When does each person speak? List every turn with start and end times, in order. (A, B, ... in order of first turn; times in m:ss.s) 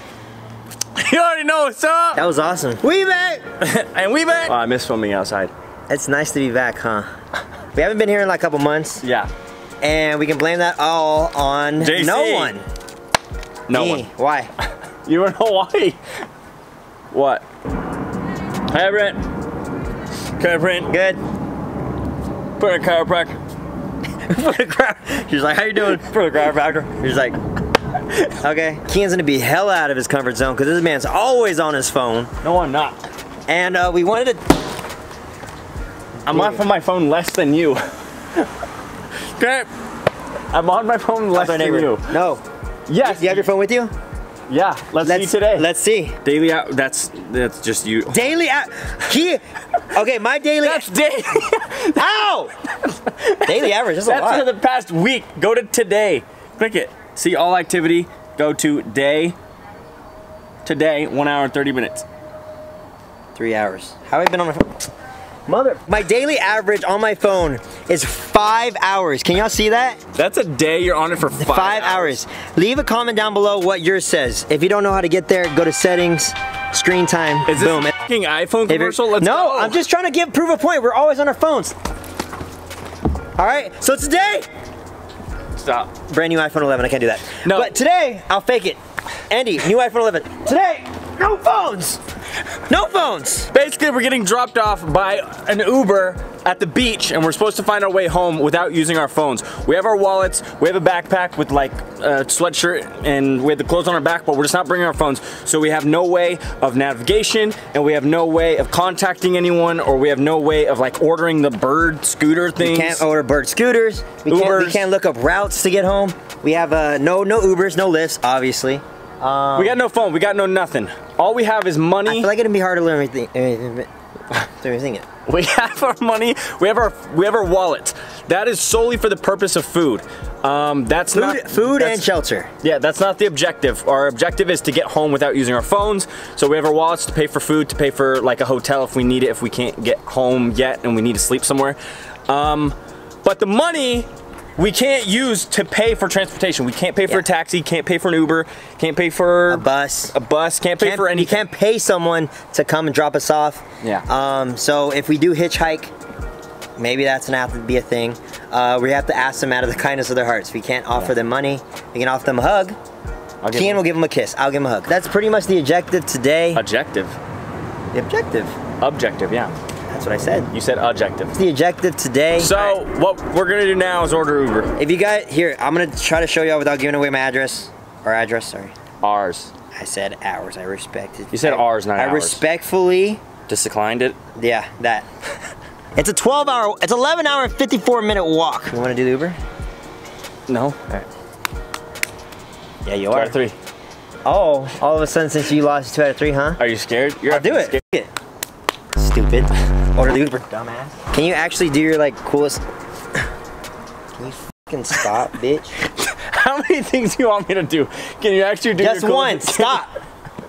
0:01.0-0:02.2 A
0:02.1-0:03.4 B
0:03.6-0:05.5 A
0:05.9-0:07.1 B
0:07.7-0:09.0 B
0:09.0-0:09.3 A
0:09.8-0:12.6 B
0:11.8-0:12.6 A
0:13.7-0:14.1 A
0:13.7-0:14.5 B
0:15.0-0:16.0 A
0:17.1-0:17.4 A
0:18.7-0:19.2 A
0:20.4-0:20.9 A
0:20.9-0:21.2 B
0:22.6-0:23.4 A
0:24.3-0:27.4 B
0:25.9-0:26.8 A
0:28.4-0:32.3 B
0:32.4-0:33.0 A
0:33.5-0:34.4 B
0:36.2-0:36.6 B
0:36.2-0:38.5 A
0:39.4-0:39.7 A
0:40.5-0:42.1 A
0:41.3-0:42.4 B
0:42.9-0:43.5 A
0:43.0-0:43.9 B
0:44.5-0:45.6 A
0:45.0-0:46.2 B
0:46.2-0:48.3 A
0:48.1-0:50.9 B
0:50.6-0:52.1 A
0:51.9-0:52.5 B
0:52.7-0:59.4 A
0:53.4-0:54.5 B
1:00.6-1:02.0 A
1:03.3-1:04.8 B
1:05.5-1:10.0 B
1:10.1-1:12.2 A
1:11.4-1:17.9 B
1:17.5-1:19.8 A
1:18.7-1:21.7 B
1:23.4-1:24.5 B
1:25.6-1:25.9 A
1:26.1-1:28.8 B
1:27.4-1:27.7 A
1:29.3-1:32.0 B
1:32.7-1:33.5 B
1:33.5-1:53.0 A
1:52.6-1:59.8 B
1:54.2-1:54.8 A
1:59.6-2:02.3 A
2:02.0-2:03.9 B
2:04.4-2:05.1 B
2:05.2-2:12.1 A
2:11.1-2:12.5 B
2:12.6-2:21.8 A
2:22.3-2:31.4 A
2:29.5-2:30.1 B
2:30.8-2:35.9 B
2:36.8-2:42.8 B
2:43.4-2:43.8 A
2:43.5-2:46.6 B
2:46.5-2:47.2 A
2:47.9-2:48.6 B
2:48.8-2:49.5 A
2:49.9-2:50.5 B
2:50.5-2:51.4 A
2:51.3-2:52.8 B
2:52.4-2:54.7 A
2:54.8-2:58.7 B
2:59.0-2:59.5 A
2:59.7-3:03.2 B
3:01.3-3:02.4 A
3:03.5-3:04.2 A
3:04.3-3:05.0 B
3:06.0-3:09.4 B
3:10.5-3:10.8 A
3:12.8-3:13.4 B
3:13.1-3:13.5 A
3:14.2-3:16.6 B
3:16.6-3:17.8 A
3:17.2-3:18.1 B
3:18.9-3:22.6 B
3:24.1-3:25.8 B
3:25.9-3:29.9 A
3:28.8-3:29.9 B